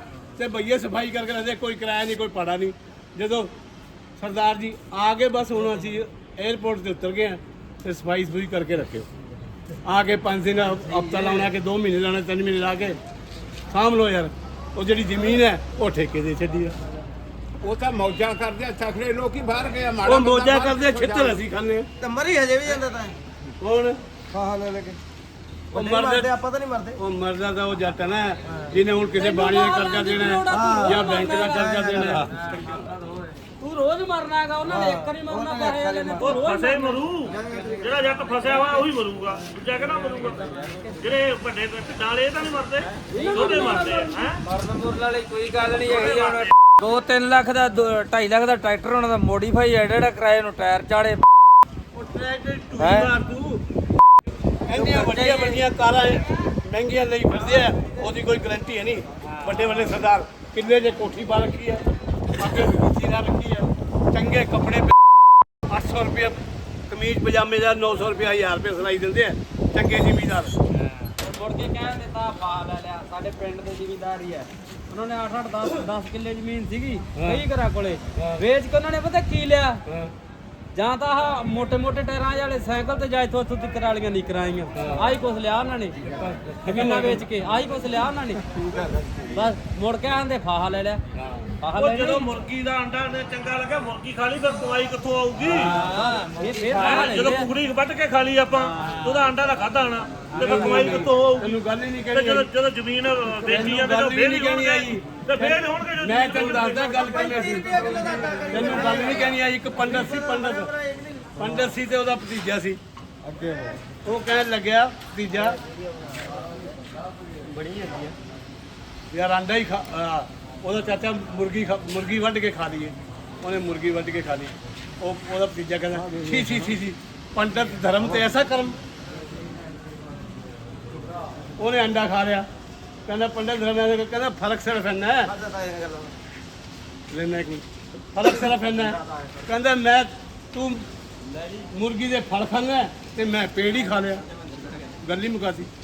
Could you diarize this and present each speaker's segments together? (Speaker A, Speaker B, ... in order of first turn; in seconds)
Speaker A: 0.4-3.5, 4.2-9.1, 9.8-13.0, 13.7-16.7, 20.0-21.9, 23.6-24.0, 25.7-26.4, 26.9-32.5, 51.9-53.6, 54.6-61.8, 62.3-65.0, 65.5-66.4, 66.9-70.5, 77.2-77.4, 78.2-78.4, 84.7-85.2, 86.0-87.3, 91.1-91.5, 100.3-102.5, 103.4-110.7, 111.3-112.8, 114.0-115.6, 119.1-128.8, 131.6-132.4, 133.1-135.3, 137.1-140.8, 141.6-144.2, 145.0-145.7
Speaker B: 17.6-21.4
Speaker C: 22.0-23.2, 24.3-25.0, 25.7-27.0, 30.5-32.4, 34.8-36.2, 37.3-37.9, 107.0-109.3, 109.9-111.6, 113.3-113.8, 135.3-136.1
Speaker D: 29.2-31.9, 33.6-37.0, 43.1-44.3, 71.2-79.8, 80.7-86.0, 86.6-88.4, 89.3-91.0, 91.6-92.3, 95.7-97.5
Speaker E: 36.2-44.4, 45.8-46.5, 91.8-95.8, 96.8-101.5, 102.1-107.3
Speaker F: 44.4-51.2, 52.8-53.1, 54.8-55.6, 95.5-97.3, 117.5-118.1